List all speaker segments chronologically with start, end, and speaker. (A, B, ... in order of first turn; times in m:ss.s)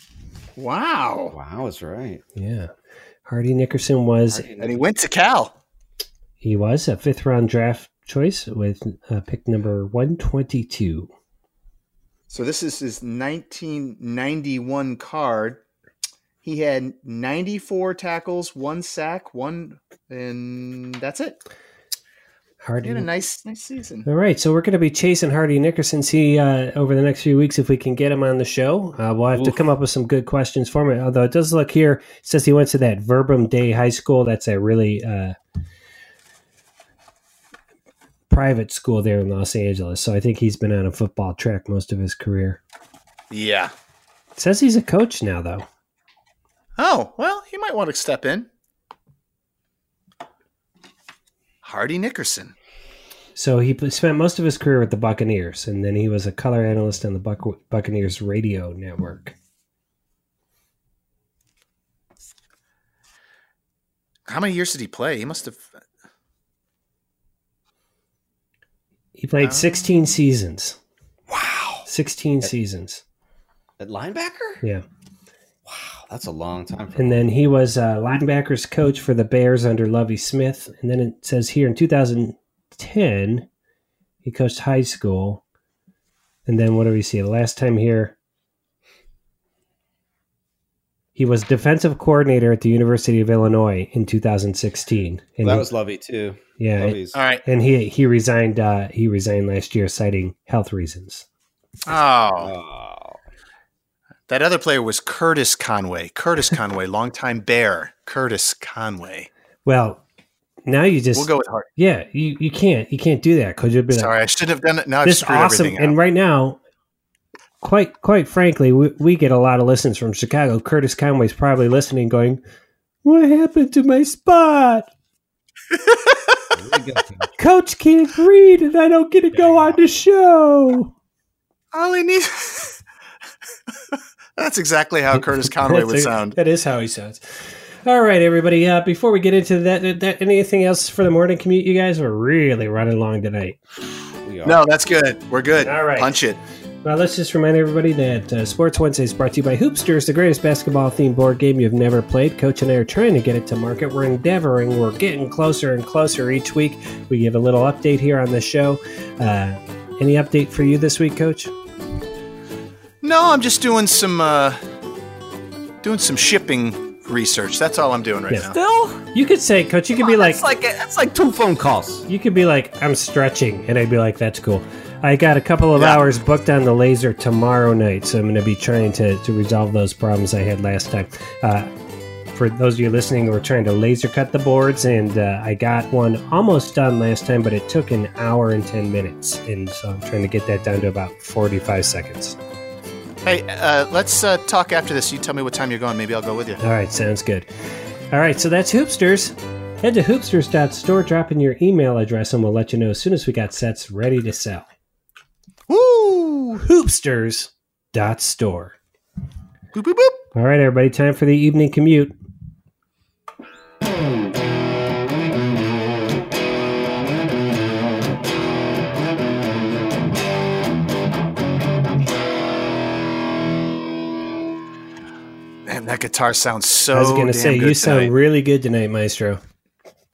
0:00.6-0:01.3 A
0:01.3-0:02.2 B
0:02.4-0:02.7 C
0:03.3-0:04.5 C
0:04.3-0:04.8 B
0:04.6-0:05.5 A
0:06.4-0:11.1 C
0:12.3-0:15.6 A
0:16.4-0:21.4 A
0:22.6-0:23.1 C
0:22.8-0:24.1 A
0:24.1-0:35.4 C
0:38.3-0:42.6 C
0:43.3-0:43.7 A
0:44.4-0:45.7 C
0:46.8-0:48.5 A
0:51.6-0:52.5 A
0:53.4-0:59.4 C
1:04.3-1:05.6 A
1:09.2-1:10.8 C
1:09.4-1:09.8 A
1:11.3-1:11.8 B
1:11.9-1:13.0 C
1:13.8-1:14.6 B
1:15.7-1:17.2 B
1:17.0-1:23.5 C
1:24.2-1:25.4 C
1:26.5-1:28.2 C
1:31.2-1:35.7 C
1:35.4-1:37.2 B
1:36.6-1:41.2 C
1:37.1-1:37.4 A
1:41.9-1:42.5 A
1:42.4-1:43.2 B
1:44.3-1:49.3 A
1:49.7-1:50.0 C
1:50.7-1:54.1 C
1:51.2-1:51.7 A
1:53.9-1:56.0 A
1:55.0-1:56.6 C
1:57.6-2:02.4 C
2:03.0-2:04.9 C
2:05.7-2:06.4 A
2:06.5-2:07.3 B
2:07.4-2:10.9 C
2:09.3-2:09.8 B
2:11.7-2:12.8 A
2:14.4-2:16.4 A
2:15.6-2:23.6 C
2:24.2-2:24.6 B
2:24.4-2:26.4 A
2:25.6-2:26.1 C
2:26.8-2:41.5 C
2:43.0-2:44.6 A
2:45.8-2:48.6 A
2:48.5-2:49.0 B
2:49.1-2:50.4 C
2:50.0-2:52.1 B
2:52.1-3:01.7 C
2:55.8-2:56.0 A
3:02.3-3:12.4 C
3:13.2-3:16.6 A
3:16.6-3:17.5 C
3:18.1-3:24.7 C
3:25.7-3:26.6 A
3:26.6-3:28.8 C
3:29.7-3:30.2 A
3:30.4-3:32.1 C
3:45.7-3:48.1 A
3:46.9-3:49.4 C